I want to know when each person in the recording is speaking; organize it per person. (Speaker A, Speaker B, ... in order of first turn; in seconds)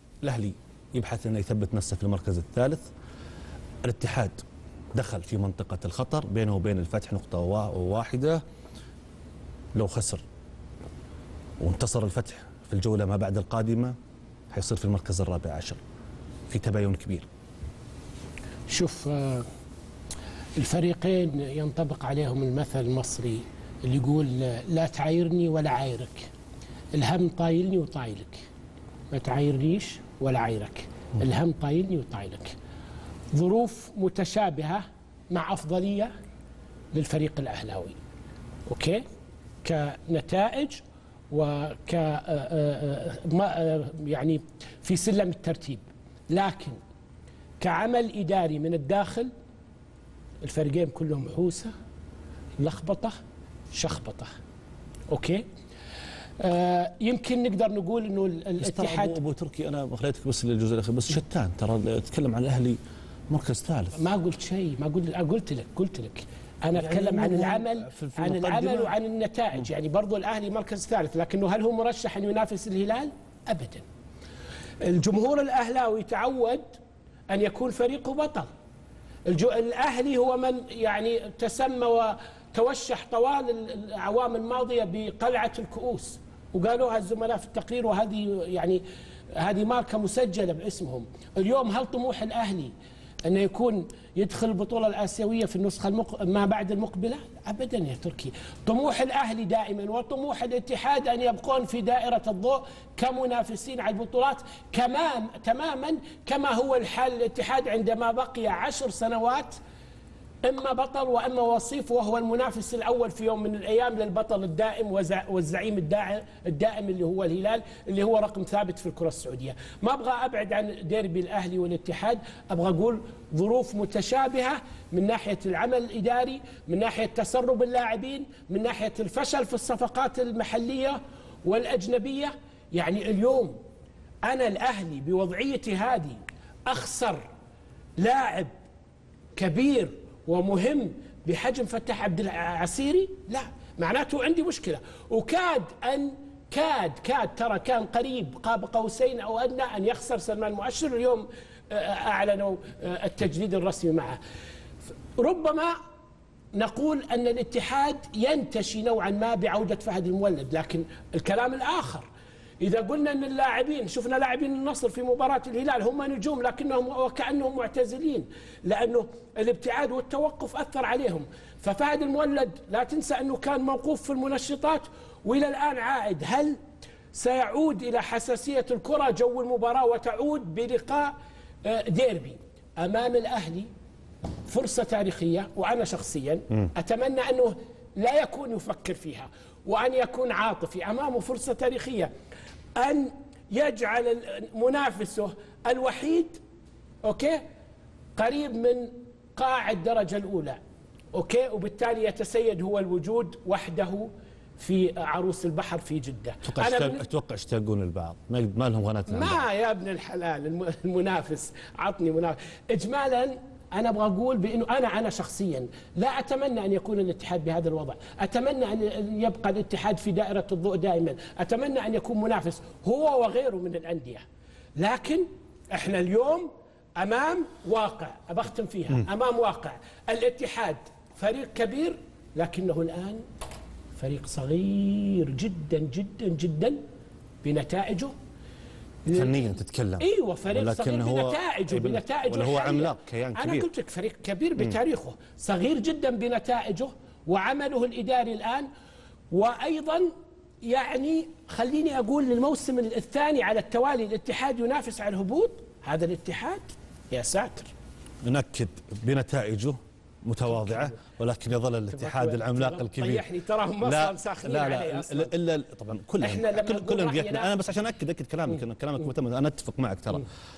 Speaker A: 0.2-2.9, 3.8-4.4, 4.9-8.4, 9.8-10.2, 11.6-13.9, 14.5-15.8, 16.5-17.3, 58.6-62.8, 63.3-64.0, 66.8-68.9, 206.4-209.4, 239.1-243.7, 258.2-263.2, 263.8-270.2
Speaker B: 18.7-19.5, 20.6-26.3, 26.9-28.5, 29.1-32.5, 33.3-36.1, 36.9-38.0, 38.7-39.0, 39.6-46.8, 47.6-49.3, 50.4-51.7, 52.6-53.2, 53.7-54.3, 55.1-55.4, 56.4-59.2, 63.9-73.8, 74.8-76.8, 77.3-78.5, 79.3-92.7, 93.3-109.6, 110.5-133.6, 134.3-137.2, 138.0-138.5, 139.3-154.2, 155.2-155.8, 156.5-162.1, 162.6-176.6, 177.1-181.1, 181.7-183.7, 184.5-192.1, 192.8-196.4, 197.0-197.4, 198.2-200.6, 201.1-207.0, 209.1-224.2, 224.8-233.2, 234.0-236.8, 237.4-238.1, 239.1-248.7, 249.3-250.1, 250.6-257.7, 260.5-260.9, 261.9-265.3, 266.2-267.6